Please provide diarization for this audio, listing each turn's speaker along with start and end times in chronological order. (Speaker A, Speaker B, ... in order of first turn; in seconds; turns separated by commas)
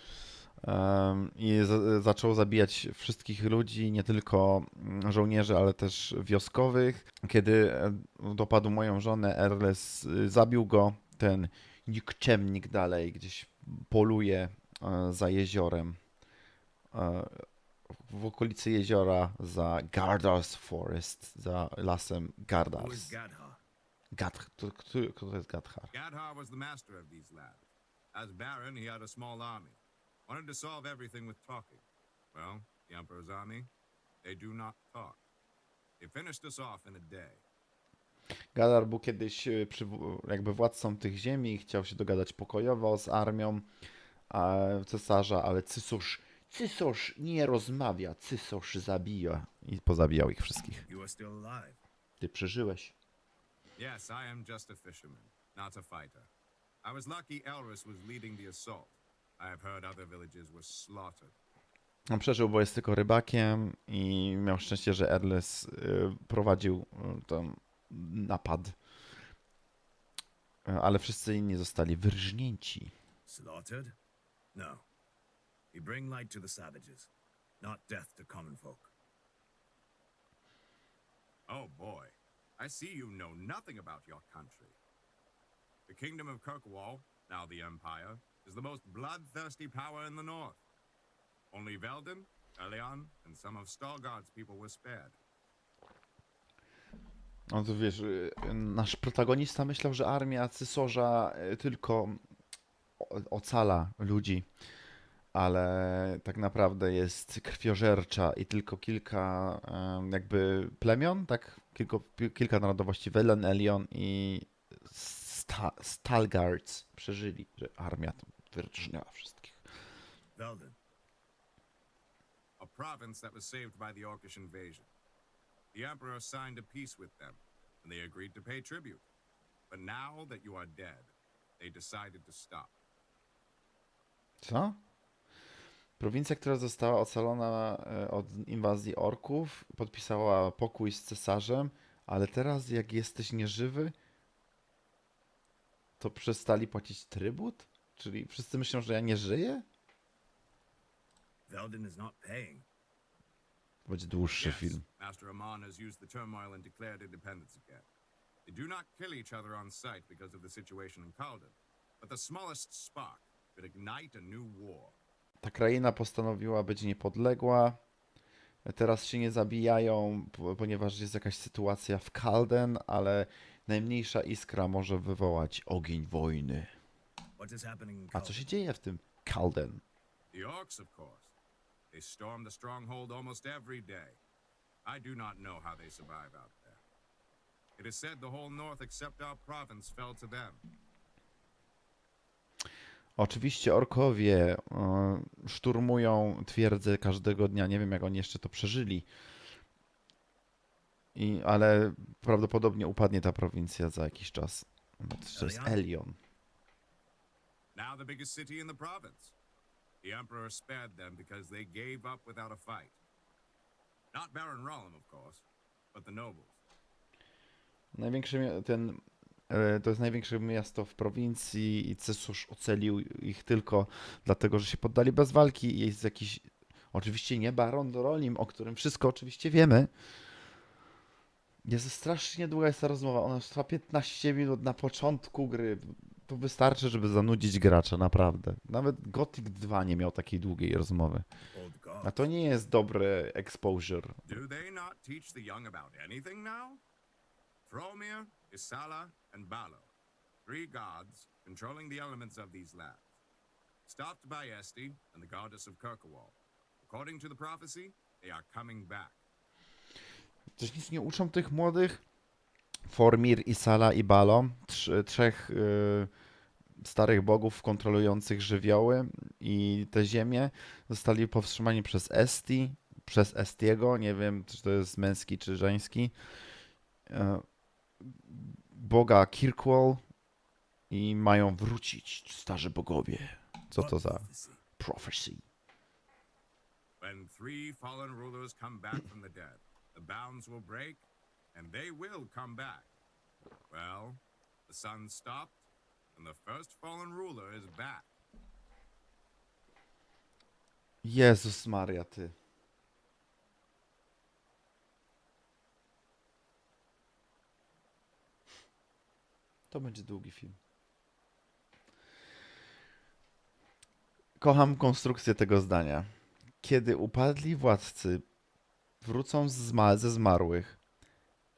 Speaker A: 0.6-16.0, Speaker A: 16.9-17.5, Speaker A: 18.0-23.2, Speaker B: 22.7-23.6, Speaker A: 24.1-25.9, Speaker C: 25.9-27.6, Speaker C: 28.1-33.7, Speaker C: 34.2-35.2, Speaker C: 36.0-37.4, Speaker A: 38.5-43.7, Speaker A: 44.3-50.9, Speaker B: 50.9-51.8, Speaker A: 52.2-53.0, Speaker C: 53.8-56.3, Speaker C: 56.8-61.3, Speaker A: 62.1-68.8, Speaker A: 70.7-72.9, Speaker B: 73.3-74.0, Speaker B: 74.5-74.9, Speaker B: 75.7-78.9, Speaker C: 81.5-84.8, Speaker C: 85.9-90.6, Speaker C: 91.5-95.2, Speaker A: 97.5-102.2, Speaker A: 103.0-104.5, Speaker A: 105.3-119.6, Speaker B: 120.4-120.8, Speaker C: 122.6-124.9, Speaker C: 125.7-129.0, Speaker C: 129.7-132.7, Speaker A: 134.4-134.8, Speaker A: 136.0-143.9, Speaker A: 146.0-149.7, Speaker B: 151.5-152.7, Speaker A: 153.9-154.8, Speaker C: 154.4-157.9, Speaker C: 158.5-165.0, Speaker A: 165.4-167.8, Speaker A: 168.7-176.7, Speaker B: 177.4-178.5, Speaker A: 178.1-179.8, Speaker C: 180.3-181.3, Speaker C: 181.9-184.2, Speaker C: 184.8-186.8, Speaker C: 187.8-190.6, Speaker A: 193.2-199.1, Speaker A: 201.2-206.2, Speaker B: 205.3-205.8, Speaker C: 207.8-209.3, Speaker C: 210.0-213.0, Speaker C: 214.1-216.6, Speaker A: 217.9-229.9, Speaker A: 231.6-241.2, Speaker B: 241.5-242.3, Speaker A: 242.0-244.3, Speaker C: 244.3-246.8, Speaker C: 247.7-249.9, Speaker C: 250.4-253.1, Speaker C: 253.9-259.2, Speaker A: 260.6-262.0, Speaker A: 262.9-266.1, Speaker A: 266.8-276.1, Speaker A: 277.1-277.4, Speaker A: 278.0-280.0, Speaker A: 280.9-284.3, Speaker B: 283.7-284.6, Speaker A: 284.8-285.4, Speaker C: 287.0-292.9, Speaker C: 293.7-295.6, Speaker C: 296.1-298.1, Speaker A: 301.0-302.3, Speaker A: 309.7-310.6, Speaker A: 314.4-316.1, Speaker A: 316.6-318.2, Speaker A: 319.0-320.8